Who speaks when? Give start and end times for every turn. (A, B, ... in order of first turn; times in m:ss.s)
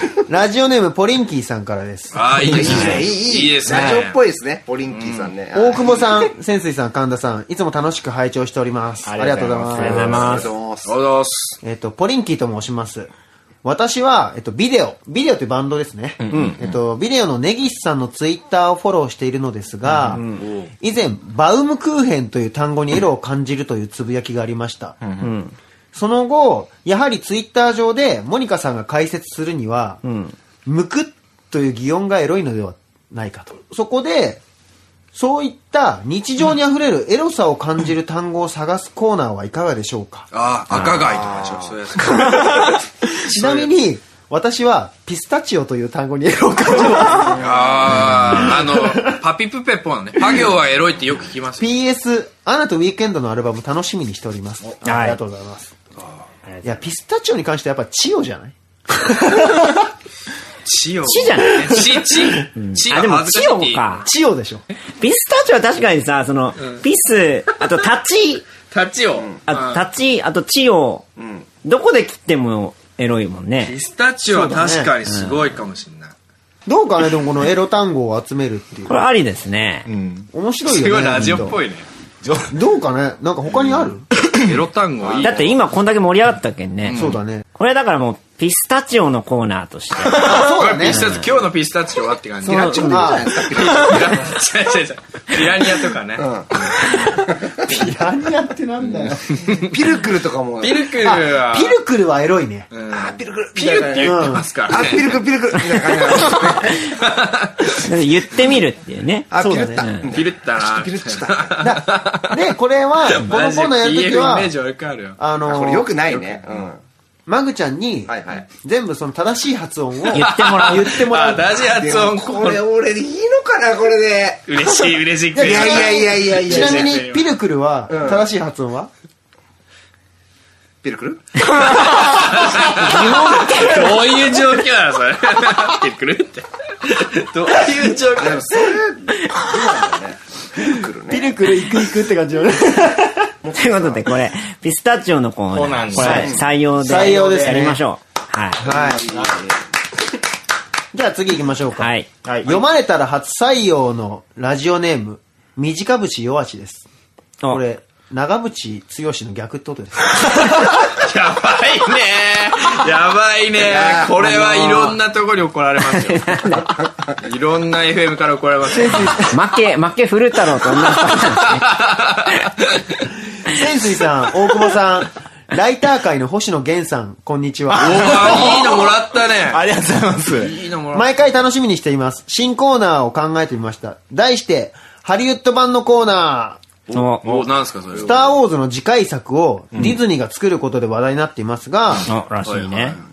0:00.3-0:02.2 A
0:02.1-0:04.2 B
0:02.4-0:06.2 C
0:02.4-0:02.8 D
0:04.9-0:05.3 B
0:05.5-0:10.4 A
0:09.0-0:10.4 E
0:09.8-0:10.5 D
0:10.1-0:11.0 C
0:10.8-0:11.6 B
0:11.6-0:13.1 A
0:13.6-0:20.2 A
0:16.2-0:16.6 E
0:16.3-0:16.6 D
0:19.8-0:20.2 E
0:20.4-0:20.7 B
0:20.8-0:25.0 A
0:25.0-0:25.3 E
0:25.2-0:25.5 D
0:25.9-0:30.0 A
0:30.0-0:30.3 D
0:30.6-0:34.4 A
0:35.1-0:40.3 A
0:40.3-0:42.7 B
0:40.7-0:41.0 E
0:40.8-0:42.0 C
0:43.3-0:47.4 A
0:43.3-0:43.7 B
0:47.3-0:48.0 C
0:47.4-0:51.7 B
0:51.6-0:55.7 A
0:54.8-0:55.2 D
0:56.6-0:59.4 A
1:00.6-1:04.0 B
1:01.0-1:04.1 D
1:04.0-1:04.6 A
1:05.0-1:08.6 D
1:06.6-1:06.8 B
1:08.4-1:09.8 B
1:09.2-1:09.4 C
1:09.5-1:11.1 D
1:11.2-1:11.5 C
1:11.6-1:13.7 D
1:13.6-1:16.1 B
1:14.2-1:14.9 A
1:15.1-1:15.4 D
1:16.6-1:19.0 A
1:18.9-1:19.9 D
1:19.9-1:20.3 E
1:20.3-1:21.6 A
1:20.6-1:21.9 B
1:22.2-1:22.5 E
1:22.5-1:24.0 A
1:24.4-1:25.5 B
1:25.0-1:25.6 C
1:25.2-1:31.2 D
1:26.8-1:27.2 B
1:26.9-1:27.4 A
1:30.2-1:31.1 A
1:30.4-1:36.3 B
1:32.4-1:33.3 A
1:32.4-1:34.3 C
1:36.2-1:36.8 C
1:37.3-1:37.8 C
1:37.6-1:39.4 A
1:38.8-1:41.0 C
1:40.6-1:41.8 B
1:41.0-1:42.7 A
1:42.7-1:45.2 B
1:42.9-1:46.8 C
1:44.0-1:44.4 A
1:47.0-1:47.7 B
1:47.8-1:50.1 D
1:49.3-1:51.6 C
1:49.3-1:49.9 A
1:50.1-1:52.4 B
1:51.6-1:54.5 A
1:53.1-1:55.2 B
1:55.2-1:55.9 A
1:55.4-1:56.8 C
1:56.0-1:56.6 B
1:57.3-2:01.5 A
1:58.1-1:58.4 C
2:00.1-2:00.8 D
2:00.2-2:02.6 B
2:01.6-2:04.5 C
2:04.5-2:07.2 B
2:05.3-2:08.9 A
2:05.4-2:07.0 C
2:07.9-2:08.3 C
2:10.8-2:11.3 C
2:12.0-2:18.5 B
2:12.8-2:14.0 D
2:18.1-2:21.4 C
2:21.1-2:23.2 A
2:23.4-2:24.1 C
2:23.5-2:28.7 D
2:25.5-2:26.4 E
2:26.0-2:26.5 C
2:26.8-2:27.8 A
2:27.1-2:27.4 E
2:28.6-2:29.5 C
2:28.6-2:29.0 A
2:29.1-2:29.4 E
2:30.9-2:31.9 A
2:31.8-2:32.1 D
2:32.2-2:32.6 E
2:32.4-2:36.8 A
2:37.5-2:40.4 A
2:40.8-2:46.4 B
2:43.6-2:44.9 C
2:46.0-2:46.6 D
2:47.2-2:49.3 B
2:48.7-2:49.2 A
2:49.3-2:51.6 D
2:51.4-2:52.8 B
2:53.5-2:58.1 A
2:57.7-3:00.6 E
2:57.8-2:59.6 B
3:00.4-3:01.1 B
3:00.9-3:06.6 A
3:06.9-3:08.4 B
3:06.9-3:07.4 D
3:08.0-3:12.1 A
3:12.0-3:13.0 D
3:12.4-3:13.0 B